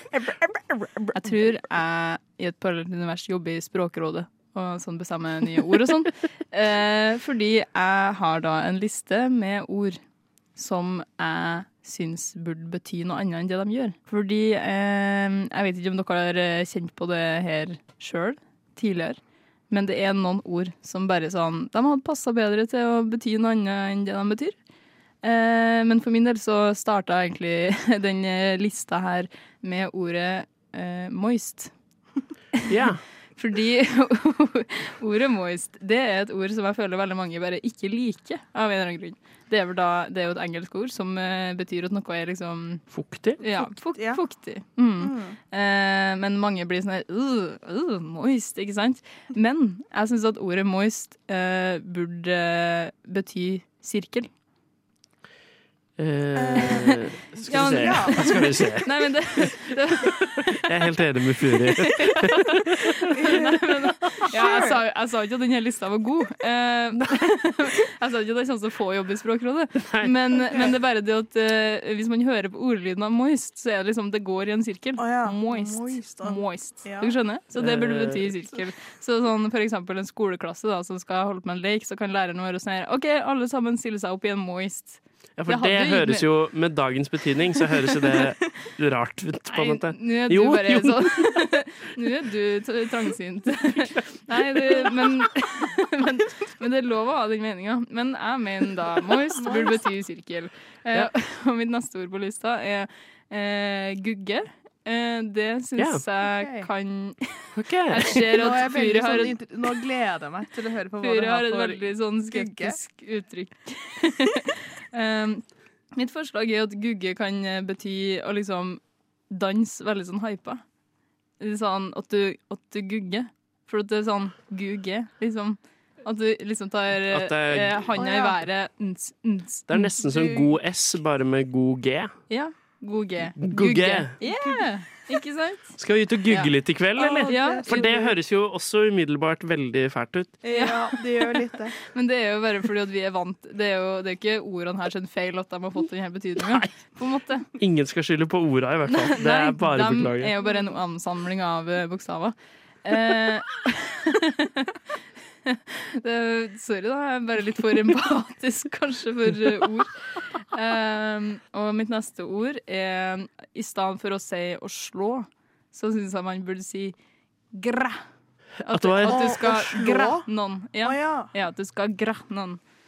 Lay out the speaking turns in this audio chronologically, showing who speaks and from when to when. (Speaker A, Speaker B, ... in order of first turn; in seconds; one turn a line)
Speaker A: 1.1-10.0
Speaker A: 10.6-19.2
Speaker A: 19.7-24.6
Speaker A: 25.2-31.7
Speaker B: 32.7-33.0
Speaker A: 33.4-42.8
Speaker B: 42.9-43.4
Speaker A: 43.4-54.3
Speaker C: 43.5-44.2
Speaker C: 45.0-45.4
Speaker B: 56.0-59.5
Speaker C: 56.4-58.3
Speaker A: 56.6-56.9
Speaker A: 57.5-60.3
Speaker B: 60.5-62.8
Speaker A: 61.8-86.2
Speaker C: 63.1-64.8
Speaker B: 69.8-70.1
Speaker C: 75.0-77.1
Speaker B: 77.6-78.3
Speaker B: 85.4-91.3
Speaker A: 89.5-109.4
Speaker C: 99.4-99.8
Speaker C: 106.3-106.7
Speaker B: 107.5-108.2
Speaker C: 108.1-112.8
Speaker A: 111.0-115.4
Speaker A: 115.9-118.8
Speaker A: 119.3-120.6
Speaker A: 121.4-129.9
Speaker B: 127.1-127.8
Speaker C: 127.9-128.3
Speaker B: 129.7-132.1
Speaker C: 130.1-130.4
Speaker A: 132.3-135.8
Speaker B: 133.4-134.1
Speaker C: 134.2-134.6
Speaker B: 135.8-140.4
Speaker C: 137.0-138.1
Speaker A: 137.2-138.0
Speaker C: 140.4-141.8
Speaker A: 140.5-141.0
Speaker A: 141.9-147.5
Speaker B: 146.4-146.7
Speaker B: 147.6-150.3
Speaker A: 148.9-154.8
Speaker A: 155.4-159.9
Speaker A: 160.5-166.9
Speaker A: 167.5-168.0
Speaker A: 168.6-172.6
Speaker B: 168.7-169.3
Speaker C: 169.0-170.3
Speaker C: 170.8-171.3